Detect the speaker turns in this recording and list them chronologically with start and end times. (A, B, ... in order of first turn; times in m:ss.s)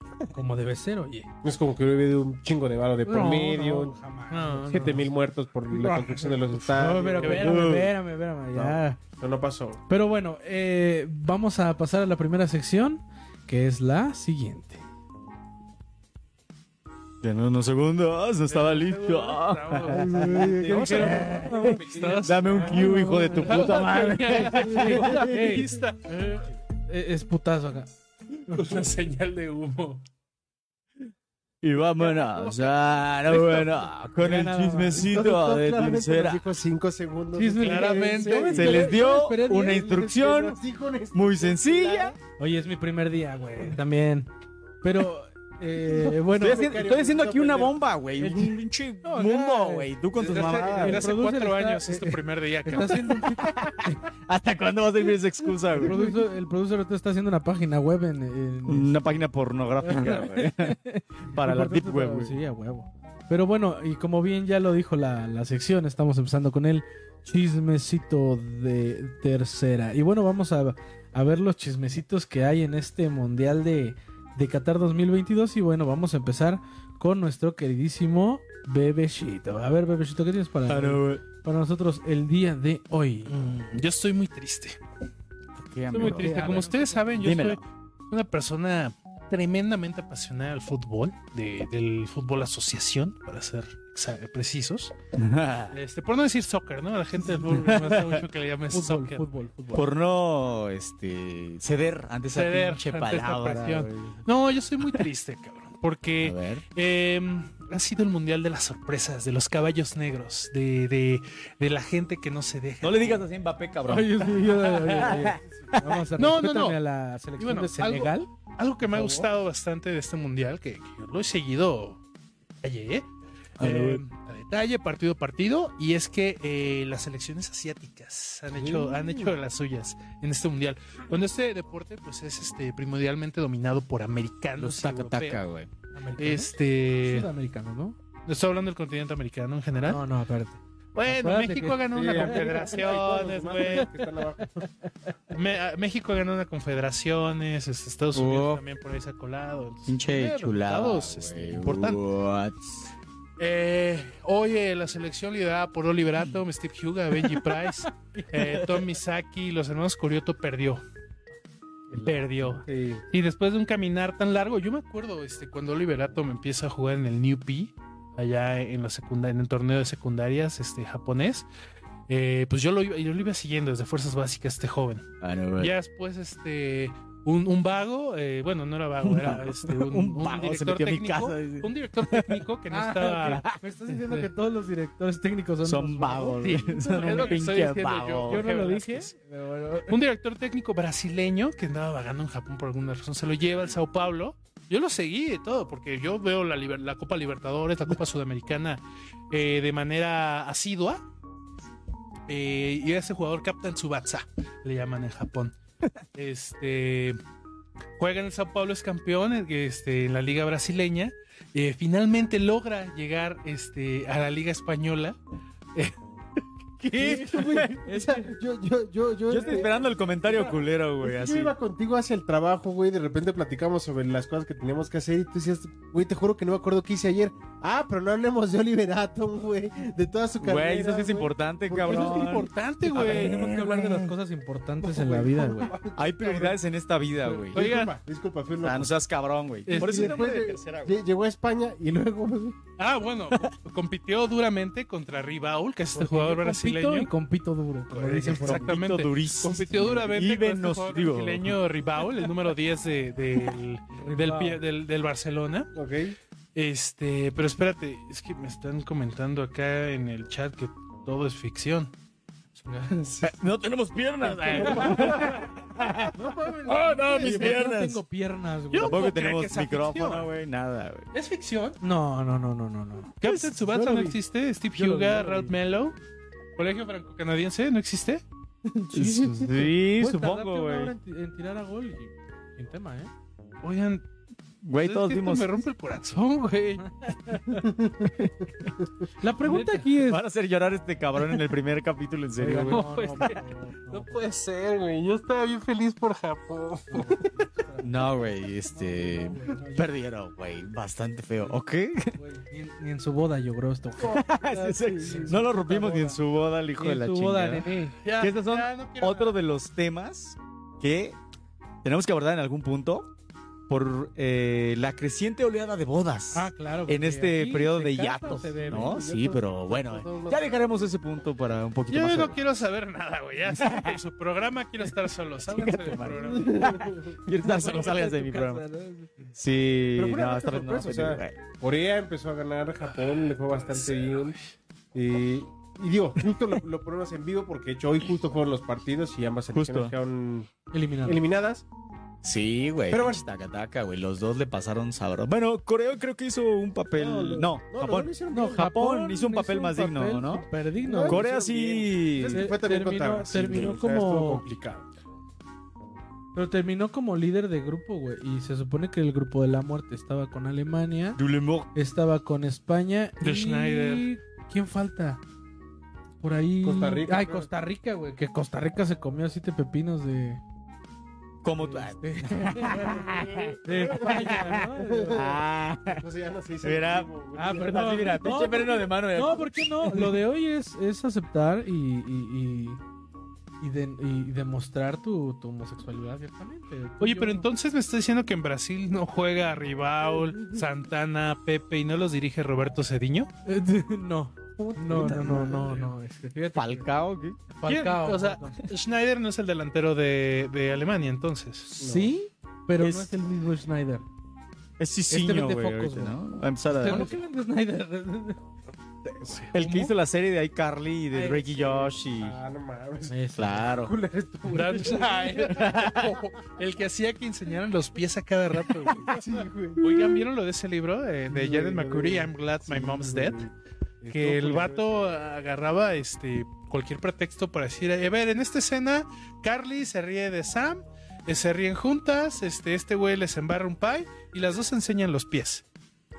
0:00.3-0:01.3 A
0:01.4-0:03.9 B
0:03.0-0:05.1 A
0:04.3-0:05.0 C
0:04.7-0:07.9 B
0:05.7-0:09.0 A
0:07.2-0:07.6 C
0:07.4-0:07.9 D
0:08.5-0:09.8 B
0:09.9-0:14.8 A
0:17.2-0:25.2 D
0:18.5-0:22.8 C
0:19.8-0:22.0 A
0:20.1-0:21.3 B
0:21.9-0:22.2 B
0:22.5-0:27.9 A
0:23.4-0:26.3 C
0:28.5-0:28.8 A
0:28.5-0:30.0 C
0:31.6-0:36.5 D
0:32.0-0:33.8 C
0:34.2-0:35.1 A
0:35.0-0:38.9 B
0:37.3-0:40.1 A
0:37.6-0:38.6 C
0:38.5-0:40.6 D
0:39.6-0:42.2 B
0:41.1-0:42.2 D
0:42.4-0:44.3 A
0:44.8-0:46.8 A
0:46.3-0:47.7 B
0:46.3-0:51.0 D
0:48.2-0:49.9 A
0:50.2-0:53.3 C
0:50.6-0:54.0 A
0:53.3-0:56.0 D
0:55.8-0:59.2 A
0:58.6-1:02.3 D
0:59.8-1:23.4 A
1:20.7-1:21.2 D
1:23.3-1:24.8 C
1:25.5-1:26.6 D
1:25.9-1:34.9 C
1:26.0-1:27.3 A
1:27.2-1:27.6 D
1:35.1-1:35.8 D
1:35.7-1:39.3 C
1:37.5-1:38.1 D
1:37.6-1:39.9 A
1:39.7-1:44.2 D
1:42.3-1:53.2 C
1:46.2-1:46.6 D
1:52.8-1:55.4 D
1:53.8-1:58.3 A
1:55.3-1:55.7 B
1:56.2-1:56.8 C
1:57.4-2:02.0 C
2:02.6-2:03.0 C
2:03.6-2:04.0 D
2:03.6-2:15.4 C
2:08.5-2:09.3 B
2:14.6-2:15.7 D
2:15.9-2:18.0 A
2:16.2-2:17.3 C
2:18.2-2:20.0 C
2:19.8-2:22.6 A
2:20.9-2:23.9 C
2:21.9-2:24.7 B
2:25.3-2:32.0 C
2:28.1-2:28.6 D
2:29.9-2:32.9 D
2:33.4-2:40.8 C
2:38.3-2:38.6 D
2:41.9-2:51.4 C
2:41.9-2:42.4 A
2:42.6-2:43.0 B
2:52.1-2:55.0 C
2:55.2-2:55.7 D
2:55.6-3:03.4 C
2:59.0-3:02.4 D
3:02.7-3:07.2 A
3:03.3-3:03.6 D
3:04.0-3:04.3 C
3:05.6-3:08.4 D
3:06.4-3:09.1 C
3:08.3-3:10.0 A
3:09.8-3:21.0 C
3:22.3-3:25.5 C
3:26.1-3:27.2 C
3:28.0-3:35.2 C
3:36.8-3:38.0 D
3:36.9-3:52.4 B
3:37.0-3:37.6 A
3:37.1-3:37.5 C
3:39.3-3:41.5 D
3:50.4-3:54.1 D
3:51.8-3:53.4 C
3:53.0-3:55.7 A
3:54.8-3:56.6 B
3:56.0-3:57.7 D
3:57.2-3:58.9 B
3:57.5-3:58.0 C
3:58.6-4:01.0 D
3:59.6-4:00.3 C
3:59.7-4:02.6 B
4:02.8-4:07.1 C
4:05.9-4:08.7 A
4:07.9-4:15.7 C
4:08.4-4:11.6 D
4:14.0-4:14.6 A
4:15.7-4:16.1 B
4:16.5-4:21.9 C
4:22.7-4:22.9 A
4:22.9-4:23.1 C
4:23.2-4:28.0 D
4:24.5-4:25.2 B
4:24.6-4:25.3 C
4:24.6-4:25.4 A
4:26.1-4:29.0 A
4:28.7-4:30.3 C
4:28.8-4:31.1 D
4:31.1-4:31.8 C
4:31.8-4:33.2 A
4:33.2-4:36.0 C
4:33.2-4:34.1 B
4:34.7-4:35.6 A
4:36.6-4:38.2 C
4:38.7-4:43.1 A
4:38.9-4:40.9 D
4:43.6-4:44.0 C
4:44.6-4:45.6 D
4:44.8-4:47.6 C
4:46.8-4:47.6 A
4:48.1-4:48.7 D
4:49.2-4:50.2 A
4:49.4-4:49.8 C
4:49.9-4:52.9 D
4:52.4-4:54.2 A
4:52.6-4:57.2 C
4:56.9-4:59.9 A
4:57.8-5:02.1 D
5:02.1-5:06.2 A
5:04.0-5:11.2 D
5:06.7-5:08.0 A
5:08.0-5:09.4 C
5:11.8-5:13.1 D
5:13.7-5:22.4 D
5:16.3-5:19.0 A
5:18.6-5:20.6 B
5:21.9-5:26.8 C
5:23.5-5:24.0 D
5:25.4-5:28.6 D
5:26.3-5:27.1 B
5:27.3-5:29.1 A
5:29.3-5:31.4 D
5:30.0-5:34.4 B
5:32.8-5:34.4 C
5:34.9-5:41.6 B
5:39.5-5:39.9 D
5:40.7-5:41.2 A
5:42.2-5:50.4 D
5:42.9-5:43.2 B
5:46.9-5:48.7 B
5:48.3-5:51.3 A
5:50.8-5:54.8 B
5:51.0-5:52.5 D
5:52.3-5:54.4 A
5:53.5-5:53.8 D
5:56.3-6:01.2 A
6:01.2-6:01.7 D
6:01.7-6:05.2 A
6:03.2-6:04.1 C
6:06.2-6:10.4 A
6:06.6-6:07.5 B
6:11.4-6:16.0 D
6:11.6-6:15.2 A
6:12.8-6:17.9 B
6:16.6-6:20.2 D
6:17.3-6:22.8 A
6:23.6-6:27.5 A
6:27.0-6:33.3 C
6:33.4-6:36.9 A
6:34.6-6:35.8 B
6:34.9-6:35.7 D
6:36.5-6:37.4 D
6:37.5-6:38.6 A
6:37.6-6:41.7 C
6:41.8-6:44.0 A
6:41.8-6:42.1 B
6:42.8-6:43.1 D
6:44.8-6:47.1 D
6:45.1-6:46.2 A
6:46.7-6:48.4 A
6:49.2-6:49.9 C
6:49.5-6:52.4 D
6:51.1-6:55.5 B
6:53.1-6:53.7 A
6:53.4-6:53.9 D
6:54.4-6:59.1 C
6:55.3-6:56.2 D
6:58.9-7:00.2 B
6:59.8-7:03.4 C
7:01.3-7:04.8 B
7:04.1-7:15.6 C